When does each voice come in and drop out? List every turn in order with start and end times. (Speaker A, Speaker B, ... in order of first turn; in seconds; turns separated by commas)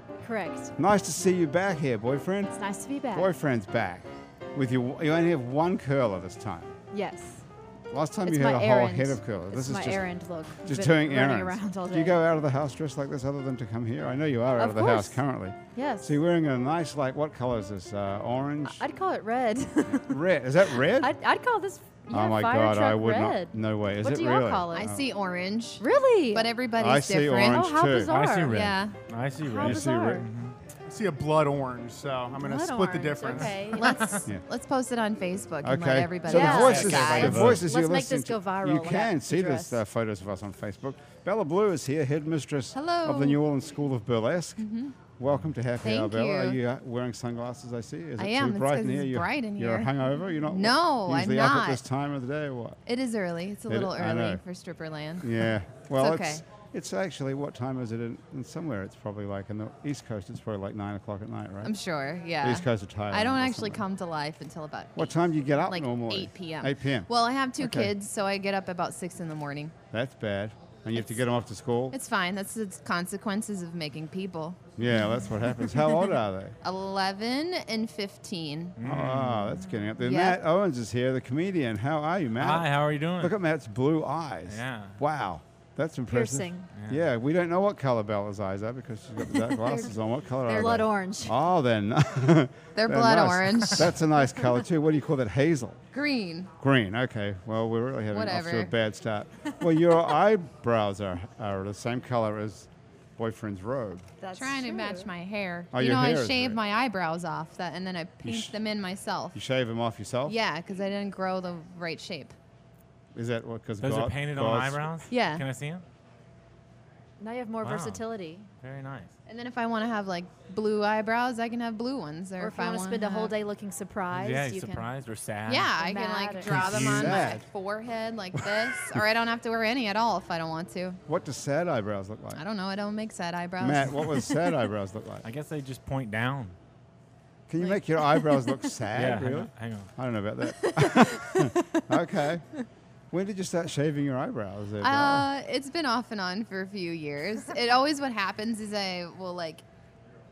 Speaker A: 0.2-0.7, Speaker B: 0.8-2.6, Speaker A: 2.5-3.3, Speaker B: 3.1-6.7, Speaker A: 6.9-7.5, Speaker B: 7.9-10.1, Speaker A: 8.2-12.2, Speaker B: 10.6-18.8, Speaker A: 14.6-15.2, Speaker A: 15.7-16.2, Speaker A: 18.6-24.9, Speaker B: 19.9-21.2, Speaker B: 22.1-25.0, Speaker C: 24.7-27.8, Speaker A: 25.8-26.5, Speaker B: 26.8-28.1, Speaker A: 27.4-28.6, Speaker D: 28.1-30.6, Speaker C: 28.5-29.0, Speaker A: 29.4-30.3, Speaker B: 29.6-30.3, Speaker E: 30.9-33.8, Speaker A: 32.4-34.2, Speaker C: 33.8-37.5, Speaker B: 35.6-44.7, Speaker A: 36.2-39.8, Speaker D: 36.5-37.6, Speaker C: 42.7-43.4, Speaker C: 44.6-45.0, Speaker B: 45.2-52.8, Speaker C: 45.8-46.6, Speaker C: 48.2-49.9, Speaker C: 50.5-51.8, Speaker C: 52.9-56.4, Speaker B: 53.7-54.4, Speaker B: 55.2-61.8, Speaker C: 61.6-69.8, Speaker B: 62.4-63.8, Speaker B: 65.0-67.9, Speaker B: 69.9-72.0, Speaker C: 71.9-74.7, Speaker B: 74.8-76.6, Speaker C: 76.6-78.8, Speaker D: 78.8-79.6, Speaker B: 78.8-95.8, Speaker C: 80.0-80.4, Speaker D: 82.4-83.4, Speaker D: 84.5-85.0, Speaker A: 86.1-86.7, Speaker D: 86.8-87.1, Speaker A: 89.7-89.9, Speaker A: 90.4-91.4, Speaker C: 92.8-93.9, Speaker C: 95.9-96.5, Speaker B: 96.6-104.1, Speaker C: 98.1-98.7, Speaker A: 104.2-105.1, Speaker C: 104.4-109.4, Speaker B: 105.7-106.6, Speaker B: 108.2-108.5, Speaker B: 109.3-110.4, Speaker C: 110.2-112.4, Speaker B: 113.1-114.9, Speaker D: 113.8-115.8, Speaker C: 115.1-115.5, Speaker A: 117.2-118.5, Speaker D: 117.6-118.0, Speaker D: 118.6-119.1, Speaker C: 119.3-123.3, Speaker A: 122.4-124.9, Speaker D: 124.1-125.7, Speaker C: 125.5-131.0, Speaker A: 125.8-126.6, Speaker D: 126.4-127.4, Speaker B: 126.8-127.5, Speaker D: 128.4-128.8, Speaker B: 131.1-132.4, Speaker C: 132.3-134.4, Speaker B: 133.6-135.2, Speaker D: 135.2-136.6, Speaker B: 137.5-142.5, Speaker D: 138.9-139.9, Speaker A: 140.5-141.9, Speaker B: 143.1-145.3, Speaker C: 144.8-149.7